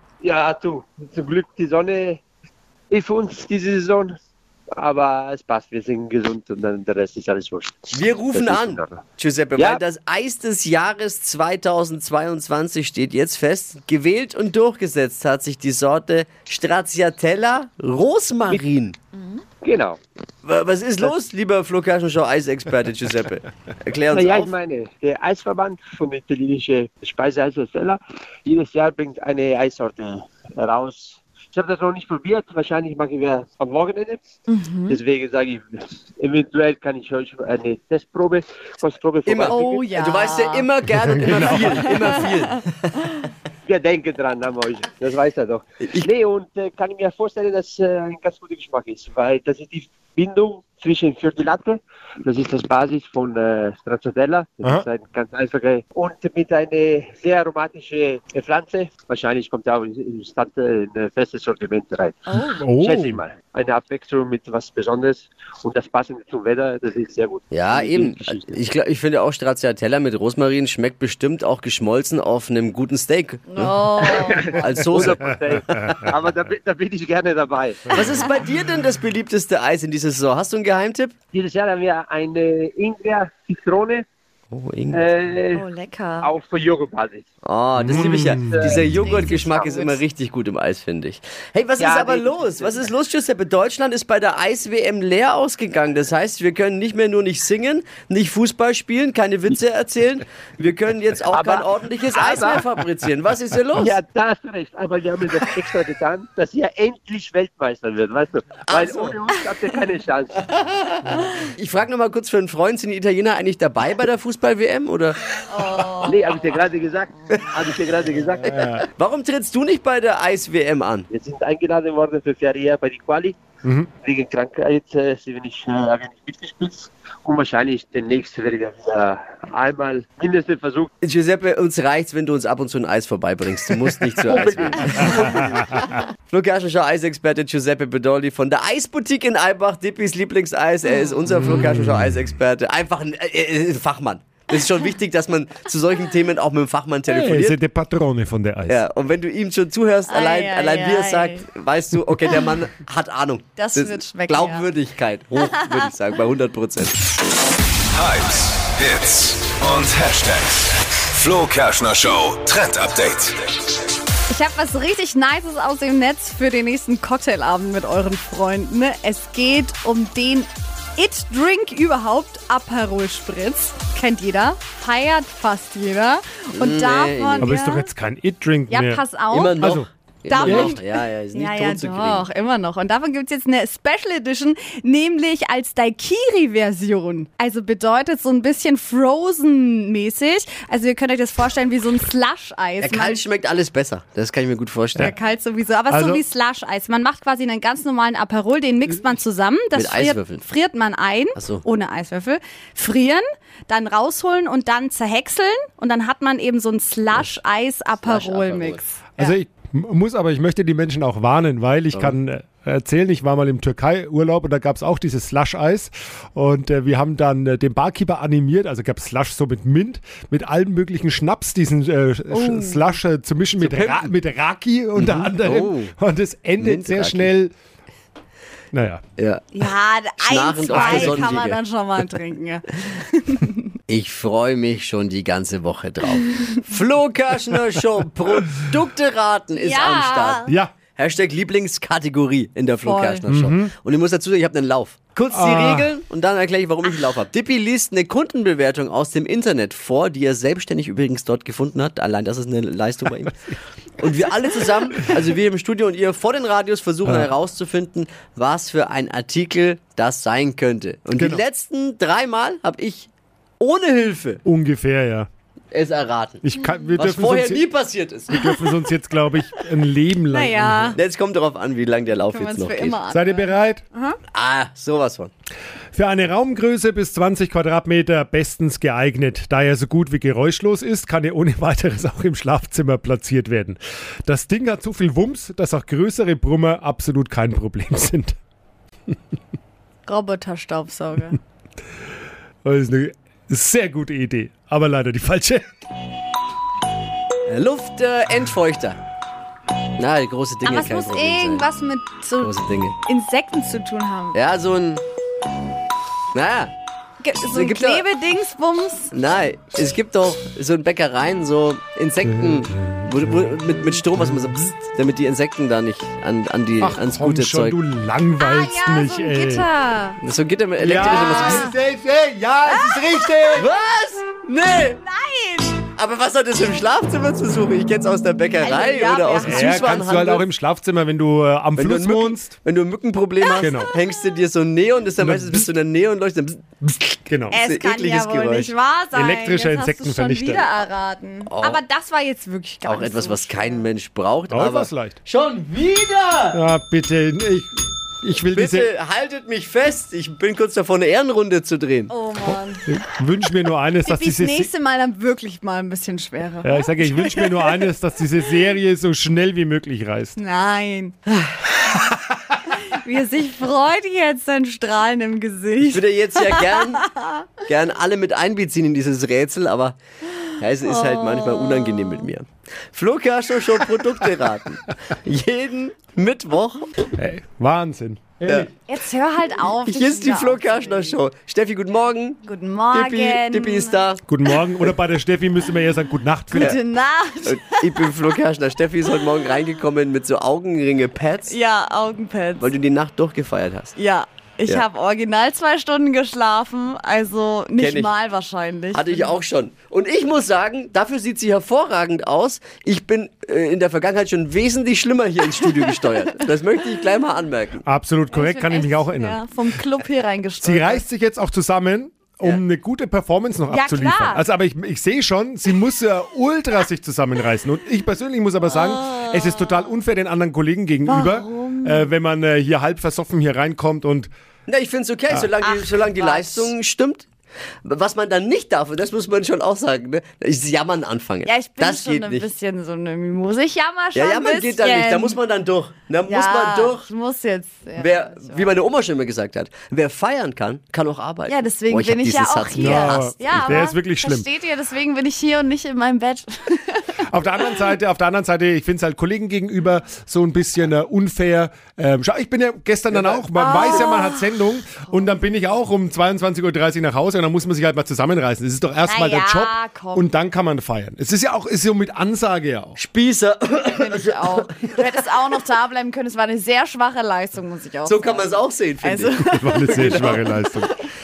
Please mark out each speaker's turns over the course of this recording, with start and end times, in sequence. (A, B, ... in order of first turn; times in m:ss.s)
0:00.2-0:02.2 A
0:02.9-0:04.1 A
0:04.8-0:09.0 A
0:07.9-0:19.0 B
0:19.6-0:20.0 A
0:20.4-0:24.5 B
0:24.1-0:34.2 A
0:34.5-0:35.0 C
0:34.9-0:39.8 A
0:39.3-0:42.9 B
0:39.5-0:40.7 C
0:41.2-0:42.5 C
0:41.2-0:41.5 D
0:43.7-1:02.2 A
1:02.3-1:02.6 C
1:02.6-1:03.2 D
1:02.8-1:08.6 A
1:07.5-1:13.7 B
1:13.5-1:14.8 C
1:14.0-1:17.9 A
1:14.6-1:15.2 B
1:17.9-1:21.1 B
1:21.3-1:24.0 A
1:24.5-1:25.1 B
1:24.9-1:25.6 A
1:25.6-1:26.3 C
1:26.2-1:27.2 A
1:27.4-1:44.0 B
1:27.8-1:28.8 D
1:28.2-1:29.7 A
1:28.7-1:30.0 C
1:31.8-1:32.9 A
1:41.3-1:42.6 A
1:43.8-1:50.4 A
1:48.7-1:49.2 B
1:50.5-1:56.0 B
1:55.5-1:56.2 C
1:56.0-1:58.6 A
1:58.5-1:58.9 D
1:58.5-2:01.1 B
2:01.1-2:03.4 A
2:03.6-2:03.9 D
2:04.0-2:10.9 A
2:11.0-2:15.4 B
2:14.3-2:15.8 A
2:16.0-2:27.6 B
2:27.1-2:28.8 D
2:28.7-2:37.0 B
2:30.1-2:31.4 C
2:33.6-2:34.7 C
2:35.5-2:35.8 C
2:37.9-2:43.4 E
2:44.3-2:57.9 C
2:56.6-2:57.5 B
2:57.4-2:59.0 D
2:58.7-3:13.2 C
2:59.3-3:02.3 B
2:59.6-2:59.9 D
3:00.4-3:00.8 D
3:12.8-3:15.1 B
3:15.0-3:29.4 C
3:15.9-3:16.2 D
3:19.7-3:20.5 B
3:21.4-3:21.6 B
3:28.0-3:28.8 B
3:29.2-3:47.5 D
3:42.3-3:43.0 C
3:43.6-3:44.1 B
3:45.0-3:45.9 B
3:46.6-3:47.3 B
3:48.7-3:49.0 D
3:49.2-3:49.5 B
3:49.5-3:53.7 C
3:50.2-3:51.6 B
3:50.7-3:51.3 D
3:53.9-4:24.4 B
3:59.6-4:00.5 C
4:00.5-4:00.7 D
4:02.8-4:03.3 C
4:03.3-4:03.7 D
4:05.3-4:05.9 D
4:21.2-4:21.4 D
4:24.4-4:25.3 D
4:25.7-4:26.4 B
4:26.4-4:27.6 D
4:27.0-4:28.6 B
4:28.3-4:31.0 D
4:30.3-4:31.0 C
4:31.0-4:33.0 B
4:32.3-4:34.2 C
4:33.1-4:33.8 D
4:34.3-4:35.3 B
4:35.9-4:48.4 D
4:50.1-4:51.4 C
4:52.6-4:55.6 D
4:57.5-4:59.0 B
5:00.0-5:01.7 B
5:00.6-5:04.4 C
5:02.4-5:03.0 B
5:04.3-5:05.0 B
5:06.3-5:06.7 B
5:07.2-5:09.1 C
5:07.5-5:08.1 B
5:09.1-5:17.8 B
5:12.4-5:13.5 D
5:16.8-5:19.7 D
5:18.4-5:20.2 C
5:20.2-5:21.7 B
5:20.8-5:23.7 D
5:21.0-5:21.8 C
5:22.6-5:23.6 C
5:23.6-5:25.0 B
5:25.0-5:25.8 C
5:26.0-5:30.5 B
5:28.6-5:29.8 C
5:29.4-5:32.5 D
5:31.8-5:38.7 B
5:33.5-5:33.9 C
5:33.6-5:33.9 D
5:35.2-5:35.7 D
5:37.3-5:37.6 D
5:37.5-5:43.9 C
5:39.1-5:40.6 D
5:41.5-5:41.8 B
5:42.8-5:46.6 B
5:44.5-5:45.2 D
5:46.5-5:47.7 D
5:48.2-5:48.9 D
5:48.6-5:52.1 B
5:52.1-5:52.8 C
5:52.8-5:54.7 D
5:54.0-5:57.9 C
5:56.6-6:00.4 D
6:00.4-6:01.2 C
6:02.7-6:07.4 C
6:05.8-6:07.1 B
6:07.6-6:10.0 B
6:10.6-6:16.9 B
6:10.8-6:12.3 C
6:17.2-6:18.7 D
6:18.5-6:18.7 B
6:18.9-6:21.2 C
6:19.6-6:24.2 B
6:22.4-6:24.0 C
6:24.3-6:26.8 D
6:26.5-6:27.8 C
6:27.4-6:31.6 B
6:31.5-6:32.7 C
6:32.6-6:34.0 B
6:34.0-6:39.4 C
6:37.8-6:38.1 B
6:38.9-6:47.8 B
6:47.8-6:49.4 D
6:48.3-6:51.0 C
6:50.6-7:04.3 D
6:53.7-6:54.4 C
6:58.7-6:59.9 C
7:01.1-7:02.1 C
7:04.7-7:07.3 B
7:05.7-7:06.7 C
7:07.8-7:12.5 B
7:11.4-7:15.4 C
7:14.2-7:17.1 B
7:16.2-7:18.8 C
7:18.0-7:23.8 B
7:21.5-7:27.2 C
7:22.8-7:24.5 D
7:27.3-7:43.0 D
7:33.5-7:35.2 C
7:39.0-7:40.3 C
7:43.0-7:45.0 B
7:43.9-7:50.6 C
7:48.0-7:50.5 B
7:49.5-7:50.9 D